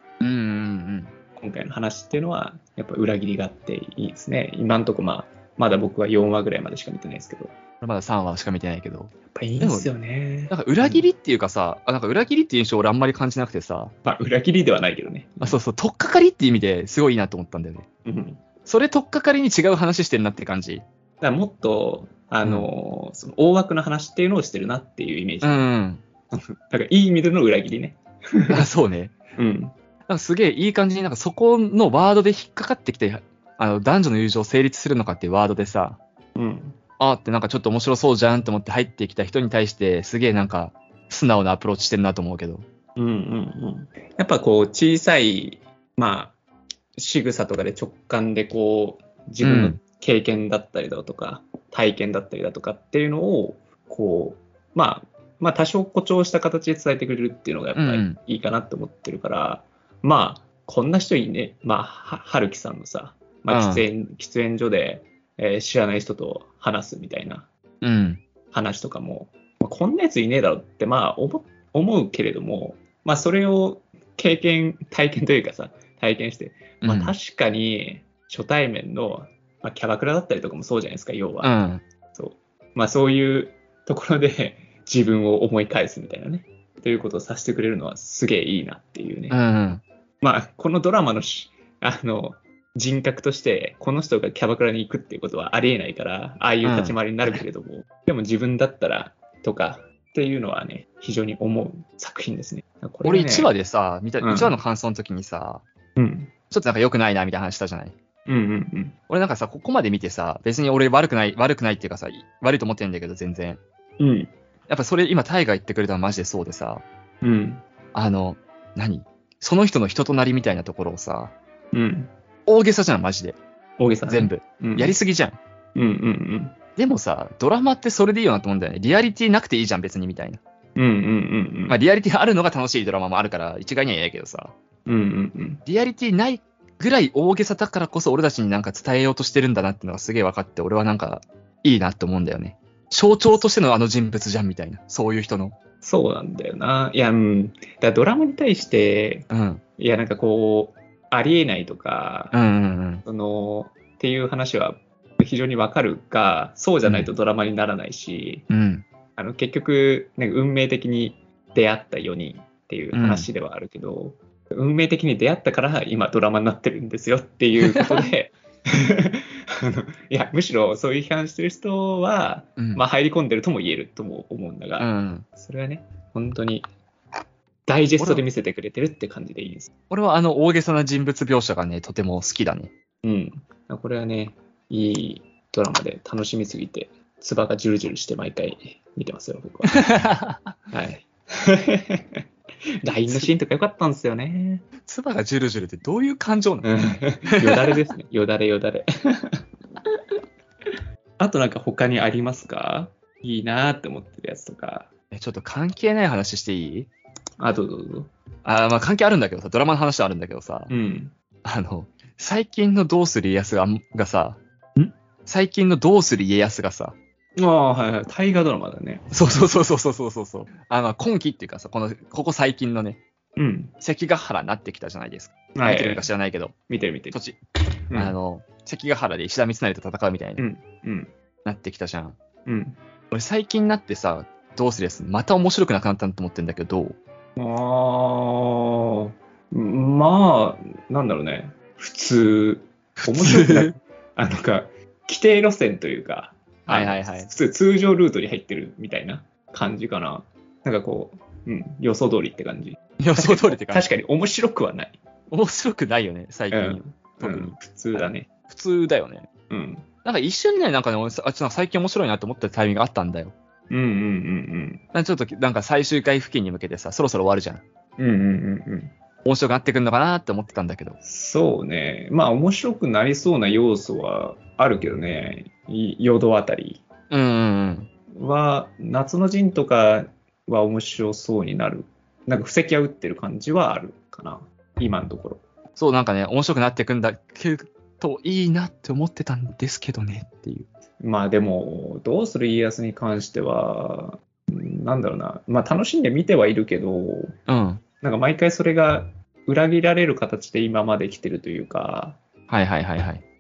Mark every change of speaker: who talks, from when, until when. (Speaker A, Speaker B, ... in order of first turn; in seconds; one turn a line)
Speaker A: 0.2-1.1
Speaker B: 1.4-7.5
Speaker A: 7.8-9.9
Speaker B: 9.3-11.1
Speaker A: 10.5-13.9
Speaker B: 14.0-15.6
Speaker A: 15.4-17.8
Speaker B: 18.0-18.4
Speaker A: 18.6-20.8
Speaker B: 21.2-25.7
Speaker A: 22.4-22.7
Speaker A: 25.4-26.0
Speaker B: 26.3-28.6
Speaker A: 28.5-29.1
Speaker B: 29.4-29.7
Speaker A: 30.1-36.0
Speaker B: 36.4-36.8
Speaker A: 37.0-42.6
Speaker B: 43.0-46.4
Speaker B: 47.0-67.5
Speaker A: 49.4-49.8
Speaker A: 57.7-58.2
Speaker A: 63.5-63.8
Speaker A: 67.8-68.2
Speaker B: 68.5-81.5
Speaker A: 76.8-77.1
Speaker A: 81.4-81.8
Speaker B: 82.1-89.4
Speaker A: 89.3-89.8
Speaker B: 90.2-103.5
Speaker A: 96.6-97.4
Speaker A: 103.0-105.6
Speaker B: 104.2-104.6
Speaker B: 106.0-106.3
Speaker A: 106.5-107.9
Speaker B: 108.3-109.0
Speaker A: 109.1-113.6
Speaker B: 114.0-114.3
Speaker A: 114.7-116.8
Speaker B: 117.2-117.6
Speaker A: 117.9-121.3
Speaker B: 121.7-122.1
Speaker A: 122.5-123.4
Speaker B: 123.8-125.0
Speaker A: 124.1-125.4
Speaker B: 125.7-126.6
Speaker A: 126.8-130.4
Speaker B: 130.8-131.8
Speaker A: 131.7-134.5
Speaker B: 134.8-135.6
Speaker A: 135.7-145.6
Speaker B: 145.8-152.3
Speaker A: 149.3-149.6
Speaker A: 152.3-153.0
Speaker B: 153.0-158.5
Speaker A: 156.8-157.1
Speaker A: 158.5-158.8
Speaker B: 159.2-176.7
Speaker A: 162.9-163.3
Speaker A: 167.6-168.0
Speaker A: 172.6-172.8
Speaker A: 174.8-175.3
Speaker B: 177.7-179.7
Speaker A: 178.0-178.2
Speaker A: 179.9-182.7
Speaker B: 183.0-190.0
Speaker A: 189.7-190.5
Speaker B: 190.7-192.2
Speaker B: 192.8-194.7
Speaker A: 193.1-193.3
Speaker A: 194.8-196.7
Speaker B: 196.6-199.4
Speaker A: 197.3-197.8
Speaker B: 201.2-204.9
Speaker A: 205.1-206.9
Speaker B: 207.4-208.1
Speaker A: 208.4-210.7
Speaker B: 210.7-211.1
Speaker A: 211.4-214.4
Speaker A: 215.2-216.9
Speaker B: 217.4-219.5
Speaker A: 219.1-223.0
Speaker B: 223.4-223.7
Speaker A: 223.8-226.6
Speaker B: 225.5-226.1
Speaker B: 226.7-227.2
Speaker A: 227.1-227.4
Speaker B: 227.9-228.1
Speaker A: 227.9-230.4
Speaker B: 230.4-231.1
Speaker A: 231.4-232.2
Speaker B: 232.4-232.8
Speaker A: 233.1-237.0
Speaker B: 237.3-238.8
Speaker B: 239.5-255.0
Speaker A: 243.0-243.7
Speaker A: 246.7-247.3
Speaker A: 253.0-253.9
Speaker A: 255.3-259.3
Speaker B: 256.5-258.3
Speaker B: 259.5-259.9
Speaker A: 260.0-263.3
Speaker B: 263.7-264.8
Speaker A: 264.9-267.6
Speaker B: 268.0-268.9
Speaker A: 269.2-271.0
Speaker B: 271.0-276.8
Speaker A: 277.1-277.9
Speaker B: 278.1-285.4
Speaker A: 285.8-290.7
Speaker B: 291.0-297.4
Speaker A: 297.5-297.8
Speaker B: 298.0-302.2
Speaker A: 302.5-303.2